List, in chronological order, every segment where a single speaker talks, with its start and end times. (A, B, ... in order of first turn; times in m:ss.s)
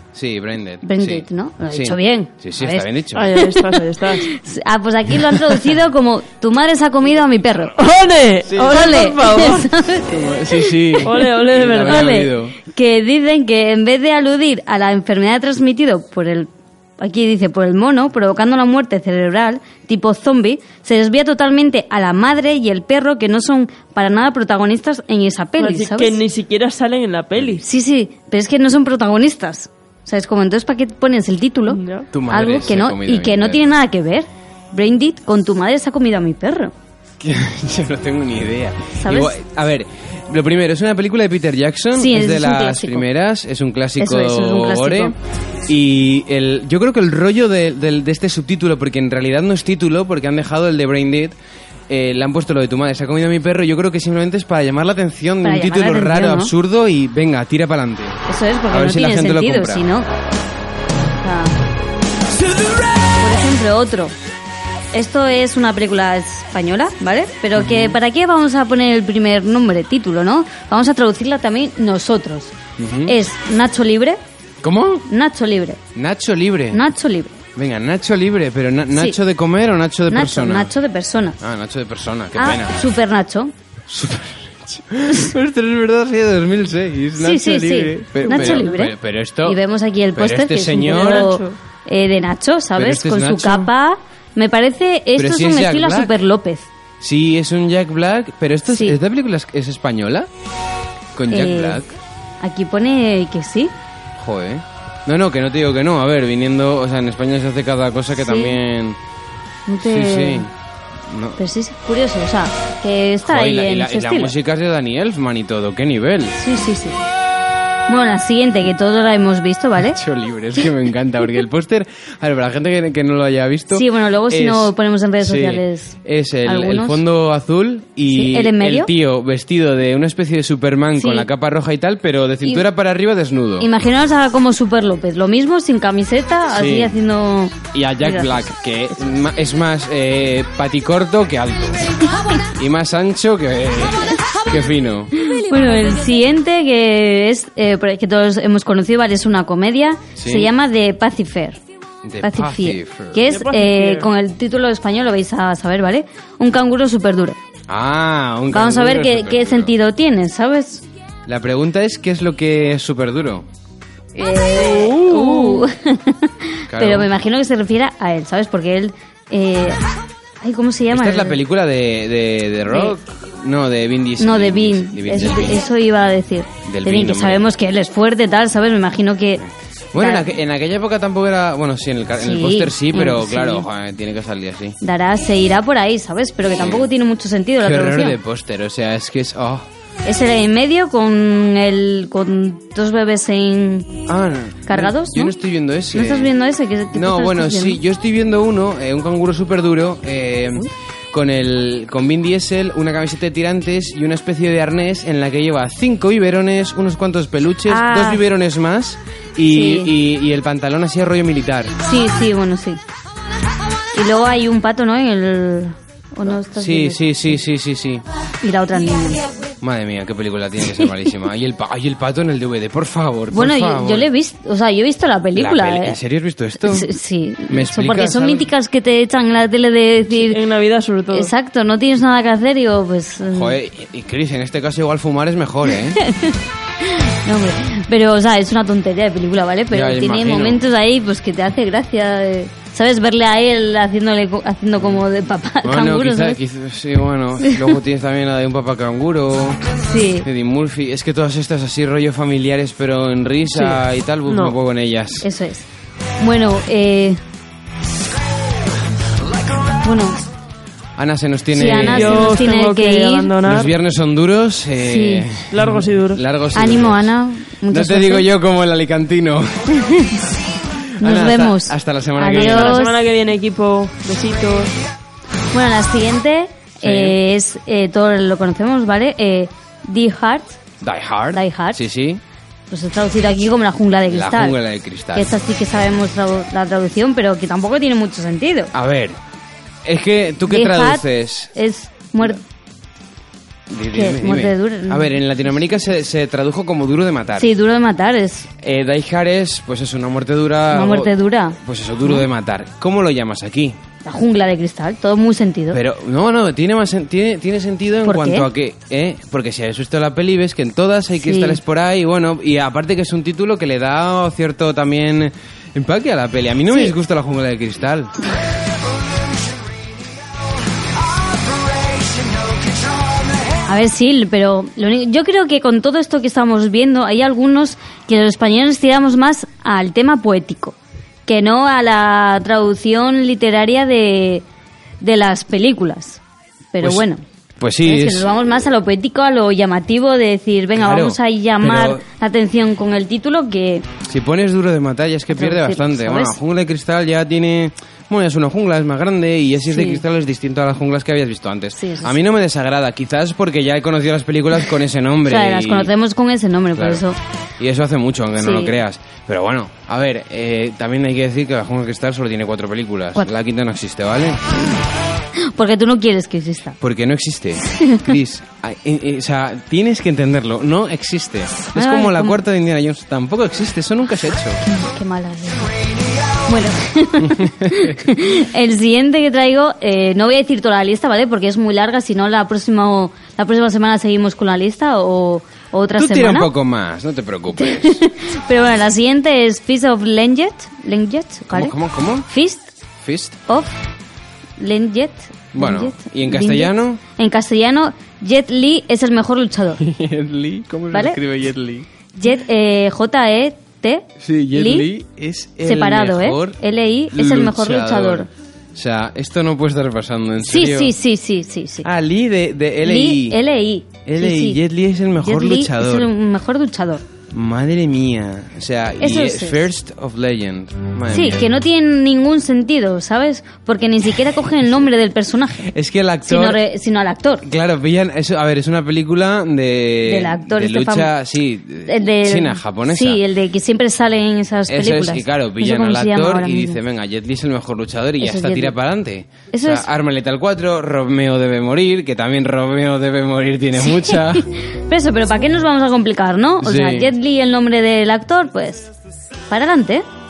0:00.1-0:03.3 A
0:00.8-0:07.7 B
0:03.1-0:04.3 C
0:07.8-0:09.7 C
0:08.4-0:08.8 A
0:08.6-0:26.2 B
0:10.1-0:12.6 A
0:11.0-0:12.3 C
0:25.6-0:27.6 C
0:27.6-0:36.7 B
0:31.7-0:32.1 C
0:32.1-0:33.6 A
0:37.2-0:45.1 A
0:39.0-0:39.3 B
0:41.9-0:43.0 B
0:44.0-0:45.1 B
0:45.7-0:51.3 A
0:51.9-0:59.9 A
0:55.4-0:56.5 B
0:58.2-1:00.1 B
1:01.2-1:01.6 B
1:03.1-1:04.1 B
1:04.9-1:12.5 B
1:07.6-1:08.0 A
1:12.8-1:13.2 A
1:13.0-1:14.2 B
1:14.6-1:15.1 A
1:15.1-1:15.8 B
1:15.9-1:16.8 A
1:16.7-1:17.4 B
1:17.6-1:20.7 A
1:18.9-1:19.2 B
1:20.1-1:21.4 B
1:21.4-1:22.8 A
1:22.3-1:23.5 B
1:23.9-1:29.6 A
1:27.2-1:36.7 B
1:28.2-1:28.8 C
1:30.1-1:31.3 A
1:30.8-1:31.6 C
1:32.8-1:33.7 A
1:35.2-1:36.1 A
1:37.0-1:40.3 A
1:38.7-1:39.0 B
1:41.1-1:41.9 A
1:41.3-1:41.8 B
1:42.4-1:43.7 B
1:44.2-1:49.0 A
1:48.2-1:48.6 B
1:49.7-1:50.4 B
1:49.8-1:50.5 A
1:51.1-1:51.4 A
1:51.4-1:54.3 B
1:53.2-1:56.4 A
1:56.4-1:57.0 B
1:57.9-2:00.0 B
1:59.9-2:13.7 A
2:03.7-2:07.0 B
2:08.1-2:08.9 B
2:11.0-2:11.3 B
2:13.6-2:18.4 B
2:16.5-2:16.9 A
2:17.7-2:21.9 A
2:22.5-2:25.1 A
2:25.2-2:31.6 B
2:30.2-2:30.5 A
2:32.0-2:33.2 A
2:32.2-2:37.4 B
2:33.3-2:34.1 C
2:37.7-2:39.7 A
2:38.5-2:40.8 B
2:41.2-2:43.5 A
2:44.1-2:49.8 B
2:44.6-2:45.6 C
2:46.7-2:47.1 A
2:50.4-2:51.4 B
2:50.9-2:55.6 A
2:52.7-2:52.9 B
2:54.2-2:59.4 B
2:56.6-2:57.4 A
2:59.9-3:04.8 A
3:00.0-3:00.3 B
3:02.2-3:03.7 B
3:04.8-3:08.2 B
3:06.6-3:06.9 A
3:07.6-3:09.6 A
3:10.0-3:14.0 B
3:14.1-3:16.3 A
3:14.7-3:15.3 B
3:15.9-3:17.8 B
3:16.9-3:31.8 A
3:27.6-3:28.2 B
3:29.4-3:29.9 B
3:31.8-3:32.8 B
3:33.9-3:37.4 B
3:36.5-3:38.0 A
3:38.4-3:39.2 B
3:39.6-3:44.1 A
3:43.3-3:46.0 B
3:45.4-3:46.9 A
3:46.6-3:50.4 B
3:47.5-3:48.5 A
3:50.1-3:51.3 C
3:51.1-3:53.6 B
3:53.2-3:56.0 A
3:55.7-4:06.4 B
3:59.7-4:00.6 A
4:05.6-4:09.7 A
4:07.4-4:07.7 B
4:09.8-4:10.3 B
4:10.2-4:15.3 A
4:14.3-4:14.5 C
4:15.2-4:15.7 B
4:16.2-4:17.2 B
4:19.8-4:20.2 B
4:21.0-4:22.4 A
4:21.5-4:23.4 B
4:21.8-4:23.7 C
4:23.4-4:27.1 A
4:24.8-4:25.3 B
4:25.5-4:26.2 C
4:26.5-4:28.3 B
4:27.7-4:30.1 A
4:29.8-4:30.0 B
4:30.8-4:32.8 A
4:31.0-4:33.0 B
4:32.3-4:34.7 C
4:35.5-4:40.6 B
4:36.8-4:37.2 A
4:40.8-4:42.2 A
4:41.3-4:41.8 B
4:42.7-4:44.6 B
4:44.1-4:45.3 A
4:45.1-4:48.7 B
4:48.7-4:49.2 A
4:49.8-4:51.5 A
4:50.5-4:52.4 B
4:53.7-4:57.5 A
4:53.9-4:55.2 B
4:57.4-4:58.5 B
4:58.6-5:03.8 A
5:00.7-5:02.2 B
5:04.0-5:05.8 B
5:05.7-5:18.2 A
5:08.0-5:08.5 B
5:11.2-5:11.6 B
5:23.6-5:34.4 B
5:35.0-5:36.2 B
5:36.7-5:37.2 B
5:37.6-5:38.3 A
5:37.8-5:43.9 B
5:40.8-5:42.0 A
5:44.0-5:55.9 A
5:45.3-5:46.4 B
5:49.7-5:50.0 B
5:51.8-5:52.1 B
5:55.2-5:57.2 B
5:56.7-5:57.0 A
5:57.6-6:04.7 A
5:58.4-5:58.8 B
6:05.4-6:06.8 B
6:06.8-6:14.6 A
6:07.7-6:08.1 B
6:11.7-6:12.4 B
6:14.6-6:15.8 B
6:16.5-6:26.5 B
6:17.2-6:17.9 A
6:25.9-6:28.0 A
6:27.5-6:31.7 B
6:31.5-6:32.3 A
6:32.3-6:32.7 B
6:33.0-6:33.4 A
6:33.5-6:33.8 B
6:34.6-6:39.8 B
6:35.5-6:37.0 A
6:39.8-6:41.9 A
6:40.9-6:41.2 B
6:42.1-6:44.9 B
6:44.2-6:46.6 A
6:45.6-6:48.3 B
6:47.1-6:50.9 A
6:50.4-6:51.9 B
6:51.8-6:53.4 A
6:52.8-6:54.6 B
6:54.0-6:56.1 A
6:55.2-6:57.0 B
6:57.3-7:01.4 A
6:59.0-6:59.7 B
7:01.1-7:05.7 B
7:05.7-7:06.6 A
7:06.2-7:07.4 B
7:07.4-7:13.2 A
7:10.0-7:11.1 B
7:11.8-7:16.8 B
7:14.7-7:24.5 A
7:18.2-7:18.8 B
7:19.5-7:19.9 B
7:23.8-7:28.9 B
7:26.6-7:27.1 A
7:29.5-7:30.0 B